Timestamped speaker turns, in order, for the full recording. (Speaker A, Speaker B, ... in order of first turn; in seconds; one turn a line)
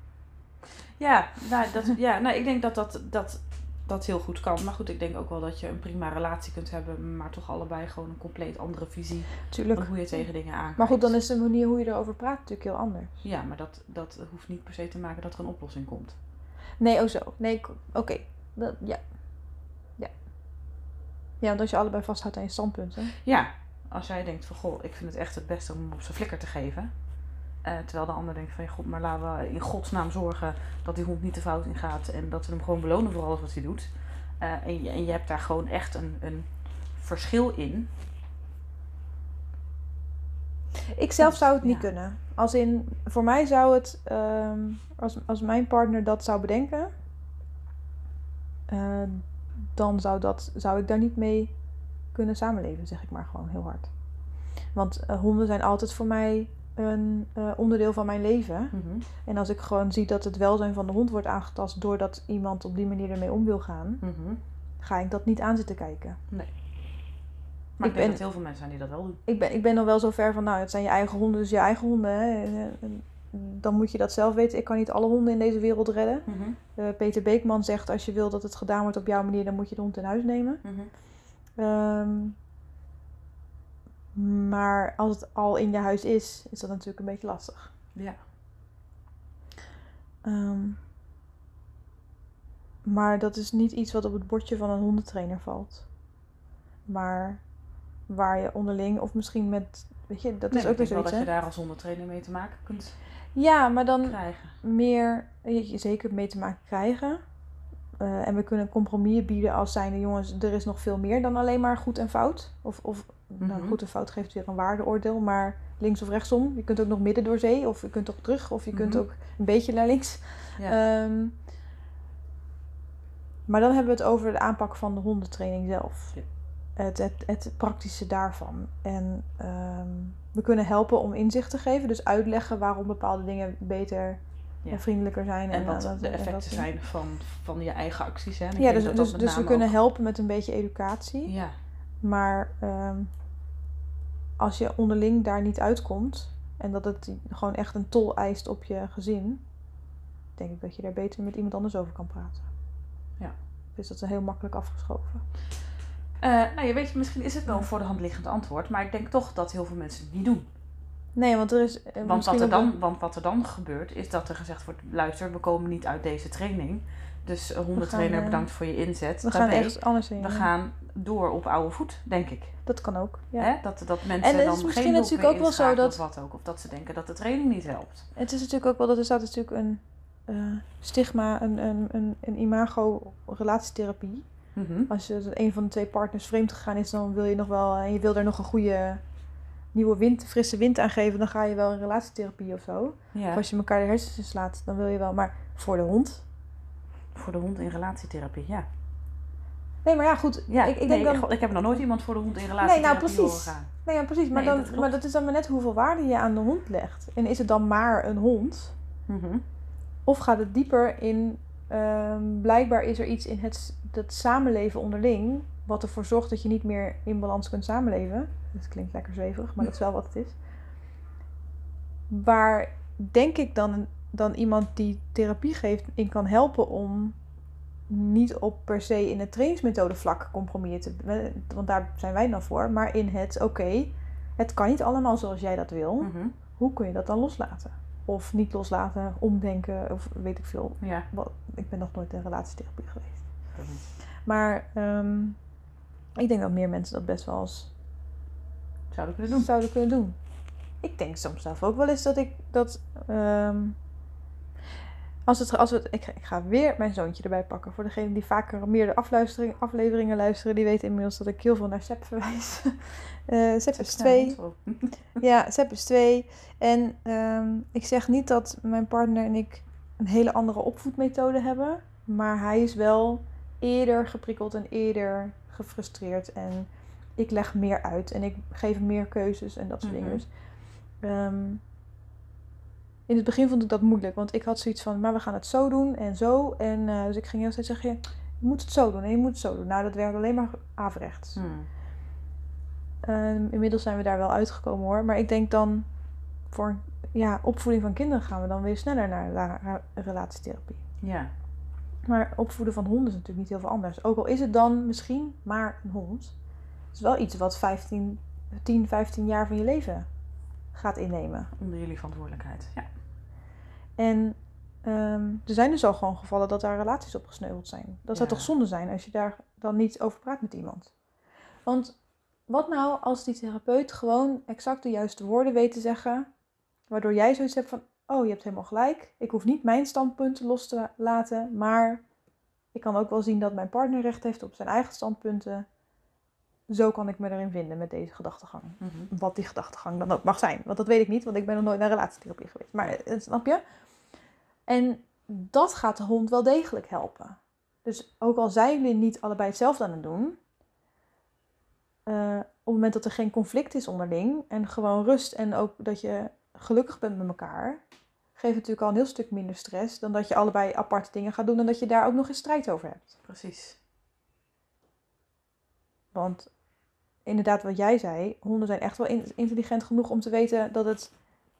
Speaker A: 1.0-11.1
Speaker B: 9.5-10.2
Speaker B: 10.7-13.2
Speaker A: 13.2-16.2
Speaker B: 16.8-19.2
Speaker B: 21.4-23.1
Speaker A: 23.1-26.9
Speaker A: 27.6-37.9
Speaker B: 40.9-46.9
Speaker A: 41.2-41.9
Speaker B: 48.7-51.5
Speaker B: 52.1-53.9
Speaker B: 54.7-64.0
Speaker A: 58.7-59.0
Speaker A: 64.0-64.4
Speaker B: 64.8-66.2
Speaker A: 67.8-69.2
Speaker B: 67.8-68.2
Speaker B: 69.2-80.6
Speaker A: 76.3-76.6
Speaker A: 80.6-80.9
Speaker B: 81.6-82.3
Speaker B: 84.1-87.7
Speaker A: 87.9-88.2
Speaker B: 90.2-90.8
Speaker B: 92.8-95.9
Speaker B: 96.9-97.4
Speaker B: 98.1-101.3
Speaker A: 100.5-103.0
Speaker B: 103.3-107.2
Speaker A: 104.0-104.5
Speaker B: 108.0-121.3
Speaker A: 113.4-113.8
Speaker A: 118.7-119.0
Speaker B: 123.5-126.2
Speaker B: 126.8-136.7
Speaker A: 135.5-139.7
Speaker B: 138.6-141.3
Speaker A: 141.2-141.6
Speaker B: 142.0-143.1
Speaker B: 144.4-149.4
Speaker B: 150.4-152.5
Speaker B: 153.8-155.2
Speaker A: 156.2-160.5
Speaker B: 161.2-162.7
Speaker A: 162.0-172.7
Speaker B: 167.8-168.5
Speaker B: 169.2-170.5
Speaker B: 172.6-176.0
Speaker A: 173.3-178.1
Speaker B: 178.1-184.3
Speaker A: 184.5-184.9
Speaker B: 184.9-189.0
Speaker B: 189.7-196.2
Speaker A: 193.1-193.4
Speaker A: 197.1-198.7
Speaker B: 199.8-201.8
Speaker A: 200.5-203.7
Speaker B: 202.6-208.7
Speaker A: 204.3-204.9
Speaker A: 209.1-209.4
Speaker B: 210.1-220.4
Speaker B: 222.1-227.2
Speaker B: 227.9-243.3
Speaker A: 236.0-236.3
Speaker A: 240.8-241.1
Speaker A: 243.5-243.8
Speaker B: 244.2-245.4
Speaker B: 246.2-247.7
Speaker A: 248.9-249.5
Speaker B: 249.3-250.2
Speaker B: 250.8-253.8
Speaker B: 255.3-264.4
Speaker A: 263.8-265.2
Speaker B: 265.2-280.3
Speaker A: 279.8-280.2
Speaker B: 281.0-281.6
Speaker B: 283.1-291.4
Speaker A: 291.4-291.7
Speaker B: 293.0-295.9
Speaker B: 296.5-300.8
Speaker A: 301.0-301.3
Speaker B: 302.1-306.3
Speaker B: 306.9-310.1
Speaker B: 310.7-311.5
Speaker A: 311.6-312.9
Speaker B: 314.0-320.9
Speaker A: 318.1-318.5
Speaker B: 321.6-326.3
Speaker B: 326.9-332.0
Speaker B: 332.7-335.6
Speaker B: 336.7-343.6
Speaker A: 338.8-339.1
Speaker B: 344.7-350.4
Speaker B: 352.1-357.8
Speaker B: 358.3-363.1
Speaker A: 363.2-363.8
Speaker B: 366.1-366.5
Speaker B: 367.2-371.1